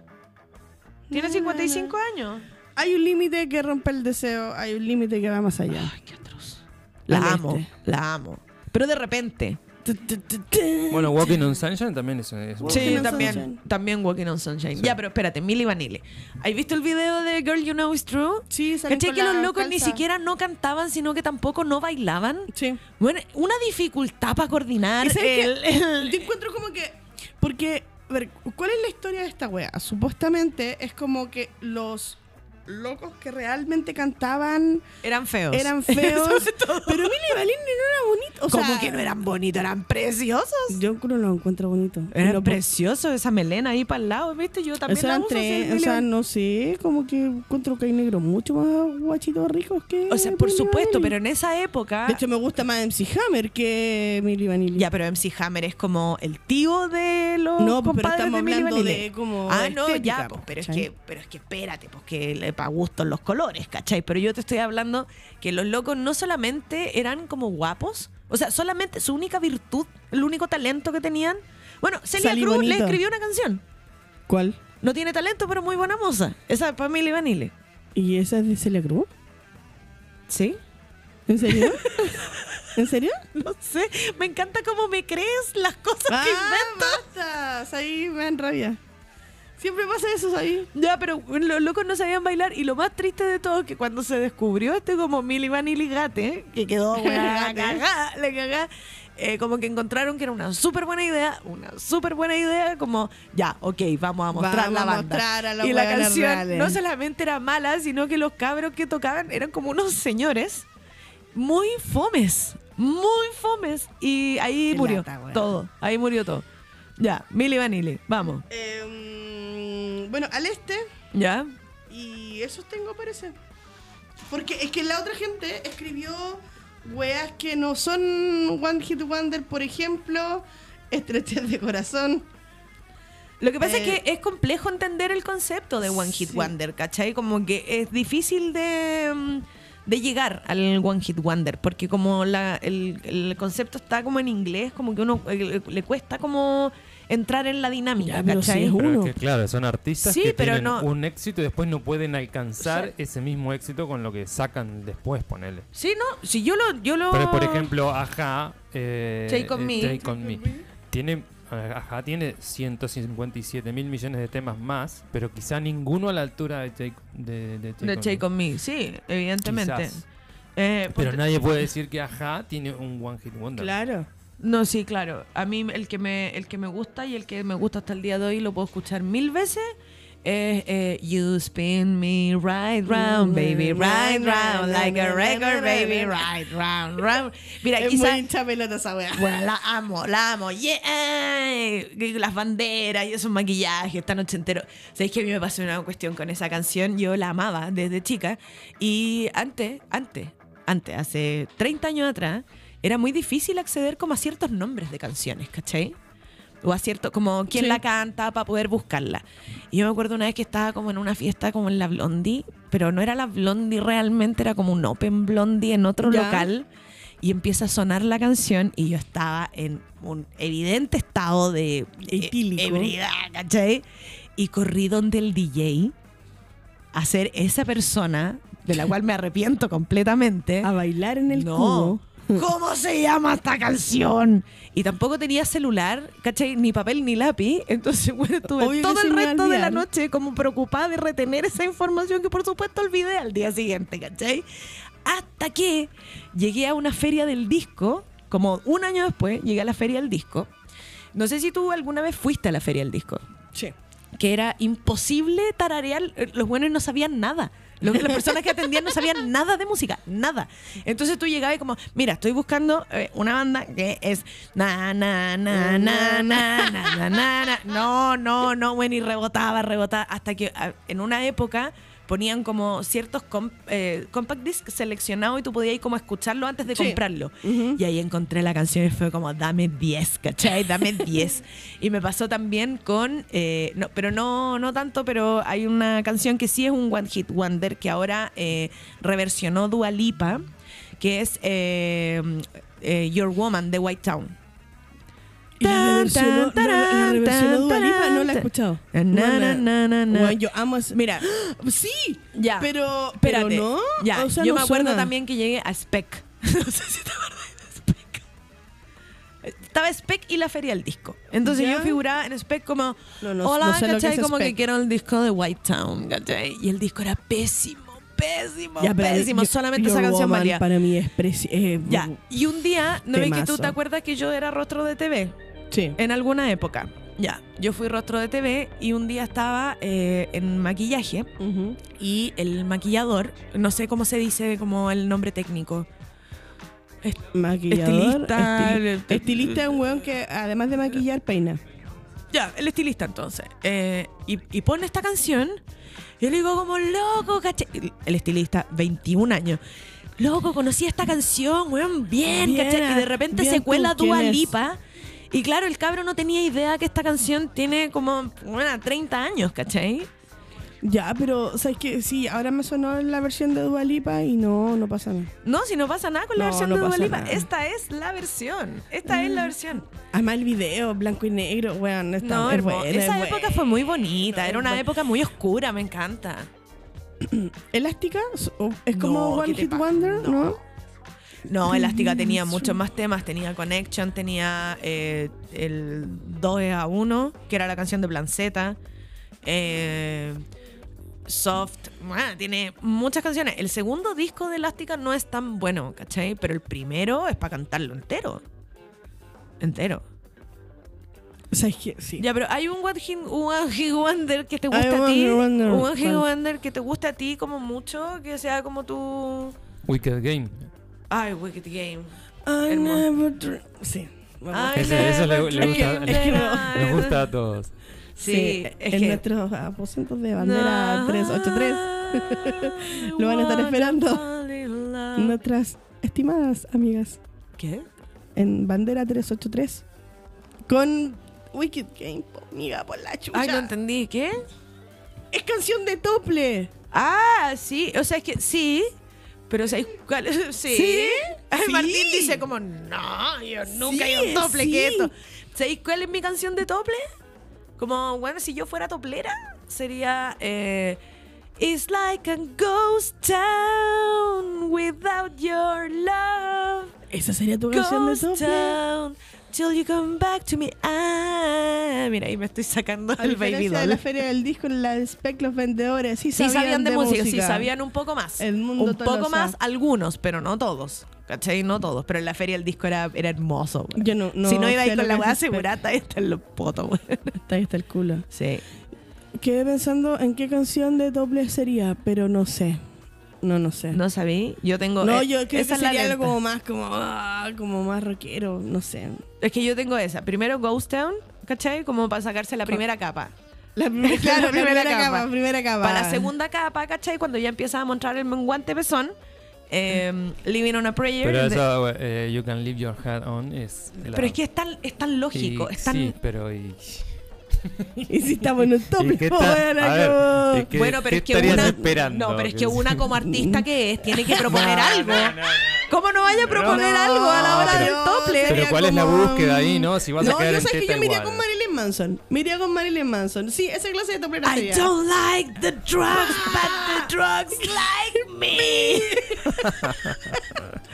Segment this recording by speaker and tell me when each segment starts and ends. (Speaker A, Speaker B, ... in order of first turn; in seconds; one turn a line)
Speaker A: 1.1-1.9
Speaker B: 1.1-2.4
Speaker A: 2.8-5.9
Speaker B: 5.7-9.6
Speaker A: 7.1-7.7
Speaker A: 9.8-11.3
Speaker C: 10.9-13.4
Speaker A: 12.6-13.6
Speaker B: 12.7-26.3
Speaker A: 18.5-20.0
Speaker A: 22.5-22.8
Speaker A: 25.0-34.9
Speaker B: 35.0-37.3
Speaker A: 35.5-39.1
Speaker B: 38.5-40.8
Speaker A: 40.7-42.6
Speaker B: 42.1-46.0
Speaker A: 44.9-51.1
Speaker B: 50.1-52.2
Speaker A: 52.1-54.9
Speaker B: 54.8-73.6
Speaker A: 57.6-60.9
Speaker A: 72.2-73.0
Speaker A: 74.3-74.6
Speaker B: 74.8-77.5
Speaker A: 78.0-79.1
Speaker B: 80.3-80.6
Speaker A: 81.3-83.2
Speaker B: 81.5-82.6
Speaker B: 83.3-87.0
Speaker A: 86.1-88.8
Speaker A: 89.6-90.7
Speaker B: 90.7-110.7
Speaker A: 96.9-97.8
Speaker A: 104.3-106.8
Speaker B: 111.3-116.4
Speaker A: 114.7-115.5
Speaker B: 117.0-118.4
Speaker A: 118.5-120.9
Speaker B: 121.1-121.5
Speaker A: 121.9-123.3
Speaker A: 124.3-132.3
Speaker B: 133.4-148.8
Speaker A: 133.6-134.0
Speaker A: 136.0-136.5
Speaker A: 148.0-149.1
Speaker C: 148.8-155.7
Speaker B: 150.0-150.9
Speaker B: 155.7-157.7
Speaker C: 157.1-168.2
Speaker B: 159.3-160.0
Speaker A: 160.0-160.6
Speaker B: 167.8-170.0
Speaker C: 169.4-170.0
Speaker B: 170.6-171.2
Speaker C: 170.9-173.7
Speaker A: 173.6-174.1
Speaker B: 174.4-179.7
Speaker B: 180.2-188.2
Speaker A: 182.9-186.3
Speaker A: 187.8-189.3
Speaker B: 189.1-205.9
Speaker B: 206.6-216.7
Speaker A: 207.5-207.8
Speaker A: 216.0-216.5
Speaker B: 217.2-223.8
Speaker A: 222.0-222.9
Speaker B: 224.4-225.9
Speaker B: 226.9-230.7
Speaker A: 230.6-232.4
Speaker B: 231.3-244.4
Speaker A: 238.6-239.8
Speaker B: 245.0-250.5
Speaker B: 251.1-253.2
Speaker B: 254.1-290.5
Speaker A: 257.9-259.1
Speaker A: 265.5-267.3
Speaker A: 276.7-277.8
Speaker B: 291.0-294.3
Speaker A: 295.6-305.1
Speaker B: 295.6-300.4
Speaker B: 300.9-301.5
Speaker B: 302.3-308.2
Speaker B: 309.4-320.6
Speaker A: 311.4-312.0
Speaker A: 313.2-314.5
Speaker A: 318.8-322.2
Speaker B: 321.9-325.3
Speaker A: 323.1-323.7
Speaker A: 325.7-326.0
Speaker B: 326.0-331.3
Speaker A: 331.4-331.8
Speaker B: 331.9-335.9
Speaker B: 337.0-339.6
Speaker A: 337.3-341.6
Speaker B: 342.3-345.6
Speaker B: 346.2-349.6
Speaker B: 350.2-354.8
Speaker A: 352.3-354.5
Speaker B: 355.3-360.1
Speaker A: 360.8-365.3
Speaker B: 365.4-369.9
Speaker A: 366.3-367.5
Speaker A: 369.1-369.5
Speaker A: 370.1-373.7
Speaker B: 372.2-376.5
Speaker A: 374.4-374.9
Speaker A: 377.2-380.6
Speaker B: 378.9-380.6
Speaker B: 381.5-388.8
Speaker A: 381.7-382.8
Speaker B: 389.4-390.4
Speaker B: 391.2-398.4
Speaker B: 399.6-400.0
Speaker A: 401.5-402.2
Speaker B: 402.2-409.5
Speaker A: 404.7-406.2
Speaker C: 409.8-410.7
Speaker B: 411.1-412.1
Speaker A: 412.4-417.1
Speaker B: 412.6-413.1
Speaker B: 414.5-417.2
Speaker C: 414.7-417.7
Speaker B: 418.2-419.2
Speaker A: 418.2-424.2
Speaker B: 420.4-425.4
Speaker A: 425.1-427.2
Speaker B: 427.6-427.9
Speaker A: 428.4-429.8
Speaker A: 430.7-433.7
Speaker B: 433.3-434.4
Speaker A: 435.3-436.7
Speaker B: 436.9-438.9
Speaker B: 439.5-447.1
Speaker A: 440.7-442.4
Speaker A: 443.7-445.1
Speaker B: 447.8-451.0
Speaker B: 451.6-456.9
Speaker A: 457.1-458.8
Speaker B: 457.7-464.0
Speaker A: 463.2-467.7
Speaker B: 466.3-477.4
Speaker A: 468.4-469.5
Speaker A: 473.9-475.6
Speaker A: 477.4-478.2
Speaker B: 478.3-478.6
Speaker A: 479.4-482.8
Speaker A: 483.4-484.0
Speaker B: 483.9-486.3
Speaker A: 485.0-489.2
Speaker B: 489.4-493.3
Speaker A: 493.8-496.3
Speaker B: 494.0-495.3
Speaker B: 495.8-499.1
Speaker B: 499.7-501.6
Speaker C: 501.2-504.4
Speaker B: 504.0-506.1
Speaker C: 505.3-507.1
Speaker C: 507.6-508.1
Speaker A: 508.1-510.7
Speaker C: 508.9-513.1
Speaker B: 510.7-518.7
Speaker A: 511.4-511.8
Speaker A: 513.2-514.8
Speaker C: 514.5-518.0
Speaker A: 516.6-524.9
Speaker C: 518.5-521.4
Speaker B: 524.4-529.5
Speaker A: 526.1-530.7
Speaker C: 529.6-530.1